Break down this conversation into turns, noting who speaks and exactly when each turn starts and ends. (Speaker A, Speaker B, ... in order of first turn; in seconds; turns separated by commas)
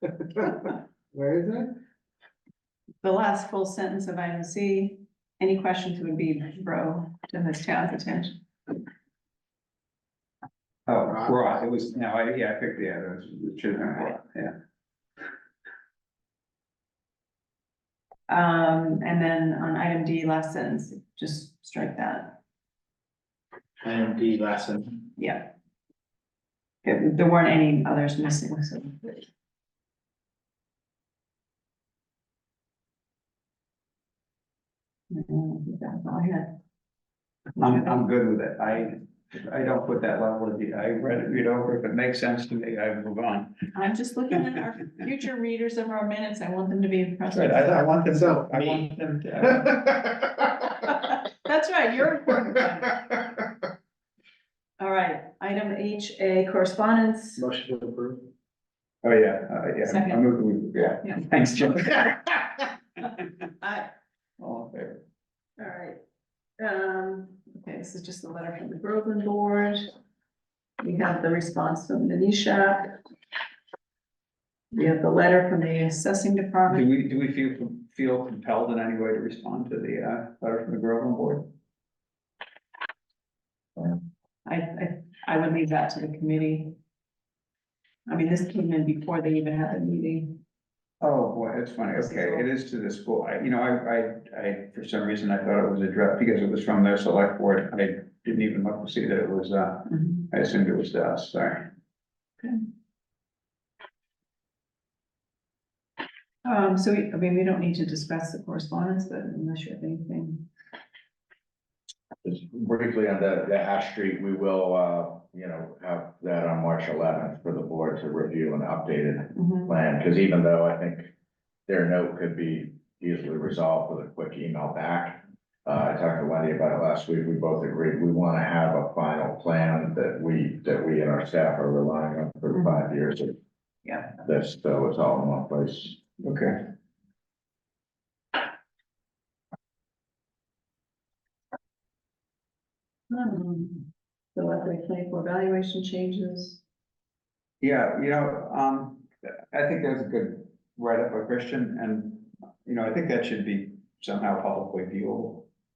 Speaker A: 1.1-1.7, Speaker B: 3.0-8.4, Speaker C: 10.9-14.5, Speaker B: 18.3-22.4, Speaker A: 23.8-25.1, Speaker B: 25.2-25.5, Speaker B: 26.8-29.3, Speaker B: 35.1-36.5, Speaker C: 37.6-43.6, Speaker B: 37.6-38.0, Speaker B: 43.7-47.8, Speaker C: 47.3-50.0, Speaker A: 48.1-48.9, Speaker B: 50.8-53.2, Speaker B: 54.8-57.4, Speaker A: 57.4-58.2, Speaker C: 59.0-62.5, Speaker B: 59.8-60.2, Speaker C: 64.4-65.0, Speaker B: 65.6-66.0, Speaker B: 66.6-69.9, Speaker B: 70.8-73.0, Speaker B: 74.7-76.8, Speaker C: 76.7-81.5, Speaker B: 84.5-86.8, Speaker B: 88.1-90.4, Speaker C: 91.0-101.7, Speaker B: 92.0-92.5, Speaker B: 106.4-110.5, Speaker D: 112.2-121.1, Speaker B: 119.4-119.7, Speaker D: 121.7-133.4, Speaker B: 132.5-132.8, Speaker D: 134.2-136.0, Speaker C: 136.2-136.6, Speaker B: 143.1-146.6, Speaker C: 147.6-155.5